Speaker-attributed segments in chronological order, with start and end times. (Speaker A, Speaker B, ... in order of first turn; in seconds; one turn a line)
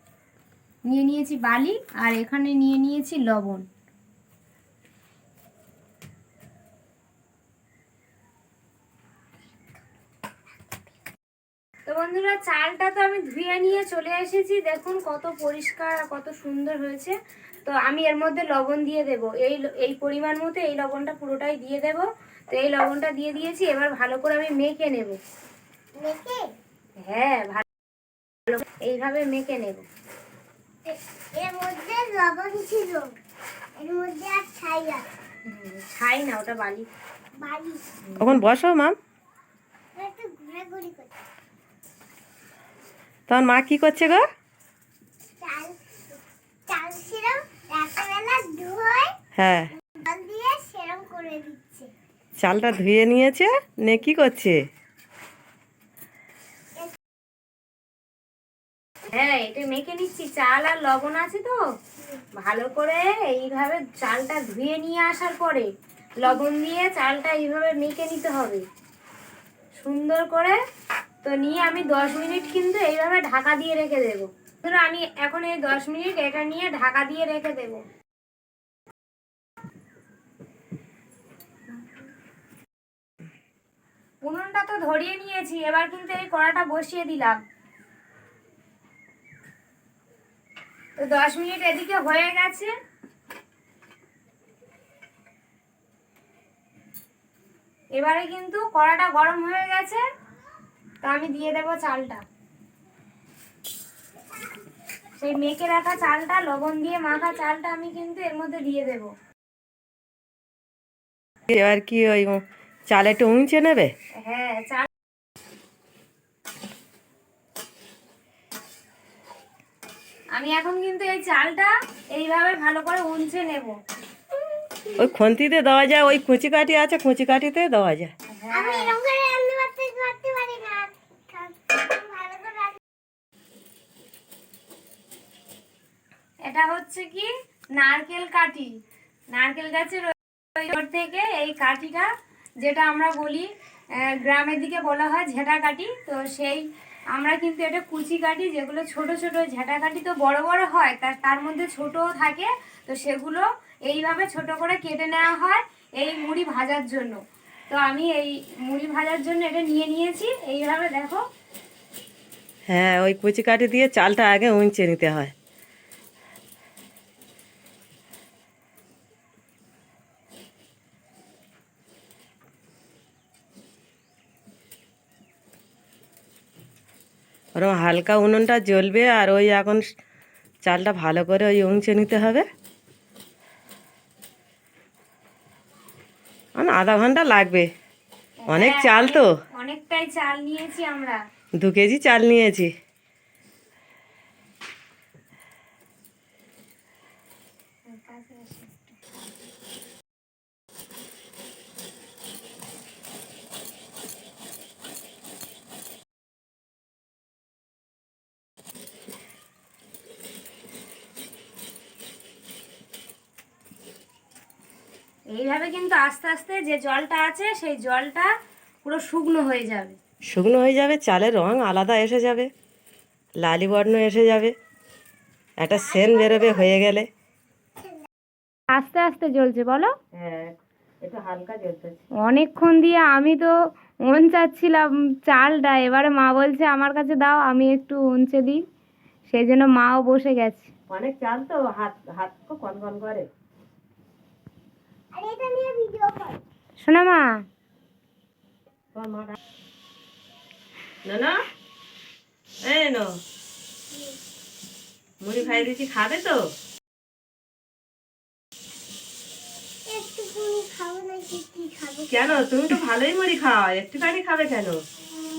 Speaker A: 0.9-3.6
Speaker A: 11.9-25.2
Speaker B: 26.0-26.5
Speaker A: 27.0-27.6
Speaker A: 28.5-29.9
Speaker B: 30.9-33.1
Speaker B: 33.8-35.1
Speaker A: 35.5-36.9
Speaker B: 37.4-37.8
Speaker A: 38.1-38.4
Speaker C: 38.2-39.0
Speaker B: 39.9-41.1
Speaker C: 43.3-44.2
Speaker B: 45.4-49.2
Speaker C: 49.4-49.7
Speaker B: 49.9-51.9
Speaker C: 52.4-54.6
Speaker A: 59.1-61.6
Speaker A: 62.4-65.7
Speaker A: 66.2-68.6
Speaker A: 69.8-70.6
Speaker A: 71.2-77.8
Speaker A: 84.2-87.4
Speaker A: 91.0-92.7
Speaker A: 98.0-100.0
Speaker A: 101.0-102.2
Speaker A: 105.2-109.1
Speaker C: 111.5-113.9
Speaker A: 114.2-114.9
Speaker A: 120.3-123.8
Speaker C: 125.0-128.1
Speaker A: 128.3-128.9
Speaker B: 128.5-132.8
Speaker A: 136.5-138.7
Speaker A: 139.3-142.1
Speaker A: 142.6-143.5
Speaker A: 144.1-161.2
Speaker C: 162.7-165.3
Speaker C: 177.6-179.8
Speaker C: 180.6-182.4
Speaker C: 186.6-187.7
Speaker A: 188.4-191.2
Speaker C: 188.5-189.3
Speaker C: 191.6-192.7
Speaker A: 197.9-199.0
Speaker A: 215.3-218.3
Speaker A: 218.8-220.0
Speaker C: 220.3-222.5
Speaker C: 223.4-224.5
Speaker C: 225.6-227.1
Speaker B: 225.9-226.5
Speaker A: 228.7-229.9
Speaker C: 230.1-232.0
Speaker A: 232.2-233.5
Speaker A: 234.0-238.6
Speaker A: 239.3-240.7
Speaker C: 240.9-243.3
Speaker B: 245.1-246.4
Speaker A: 246.8-247.4
Speaker C: 248.9-249.4
Speaker C: 251.0-251.3
Speaker C: 252.7-253.2
Speaker C: 255.2-256.4
Speaker B: 259.9-262.1
Speaker C: 262.1-264.8